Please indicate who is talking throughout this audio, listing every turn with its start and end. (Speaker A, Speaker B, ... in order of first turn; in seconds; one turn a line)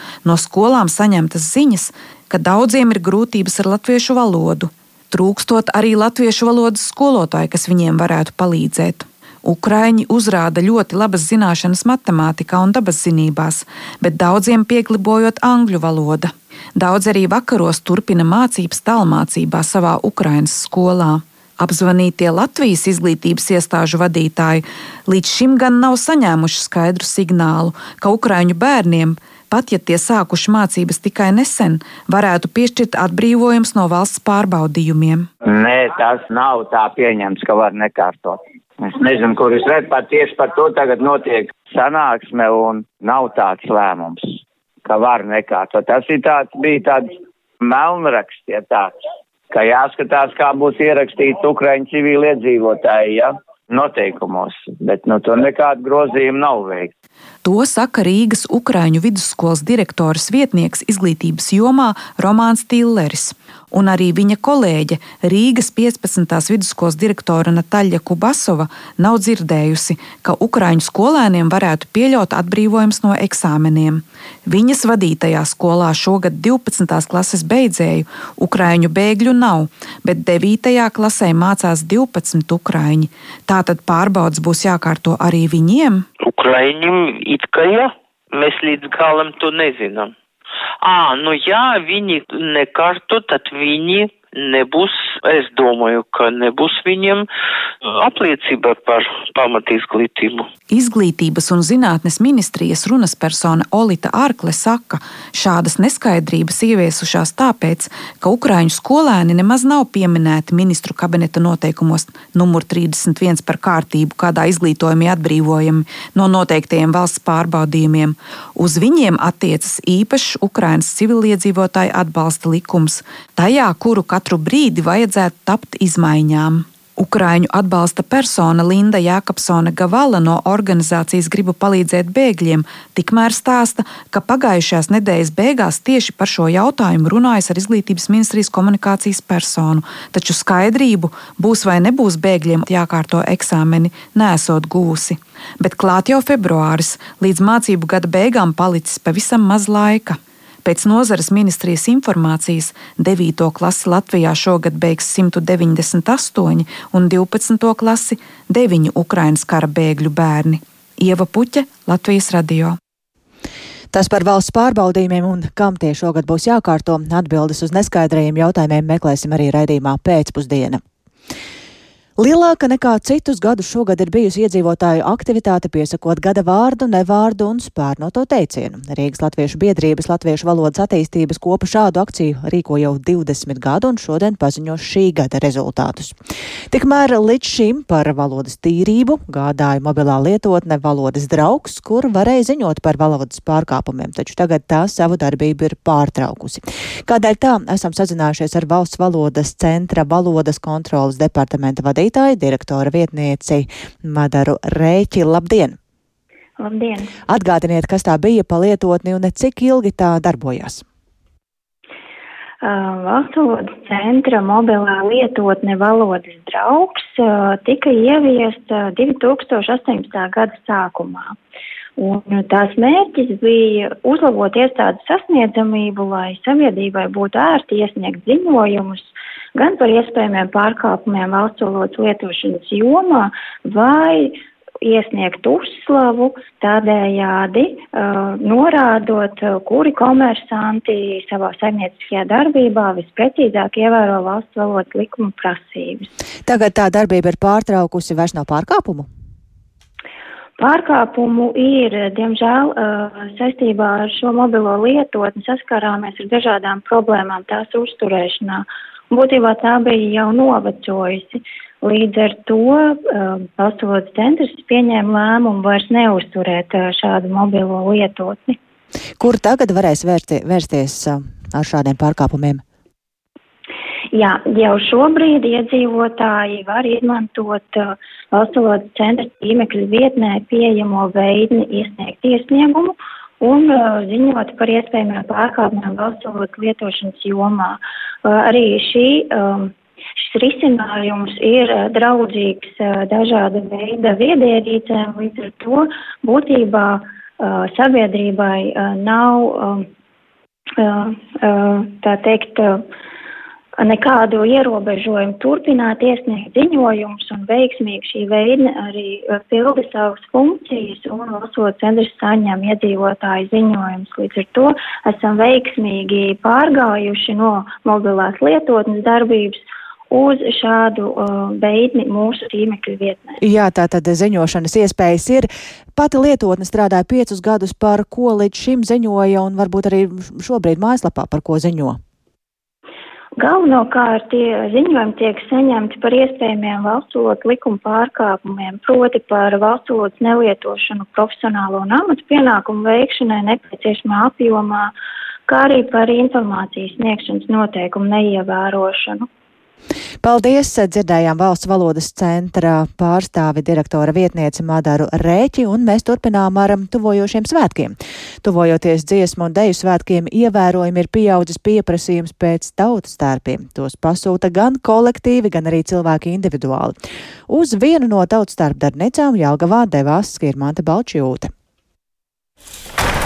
Speaker A: 0.2-35.3
Speaker B: 35.4-47.1
Speaker B: 47.6-48.9
Speaker B: 49.5-56.9
Speaker A: 57.4-86.0
Speaker C: 86.2-90.1
Speaker C: 90.8-97.3
Speaker C: 97.8-100.5
Speaker A: 100.7-162.8
Speaker D: 163.9-170.8
Speaker D: 172.2-186.2
Speaker D: 186.7-205.8
Speaker E: 206.6-207.1
Speaker D: 207.3-210.8
Speaker E: 212.6-221.3
Speaker E: 222.0-246.1
Speaker D: 246.4-249.1
Speaker E: 250.6-268.6
Speaker D: 269.2-272.6
Speaker E: 274.1-299.9
Speaker E: 300.8-302.8
Speaker E: 303.8-323.4
Speaker D: 323.4-332.0
Speaker E: 333.4-344.9
Speaker E: 345.5-349.3
Speaker D: 350.2-366.9
Speaker D: 367.5-371.5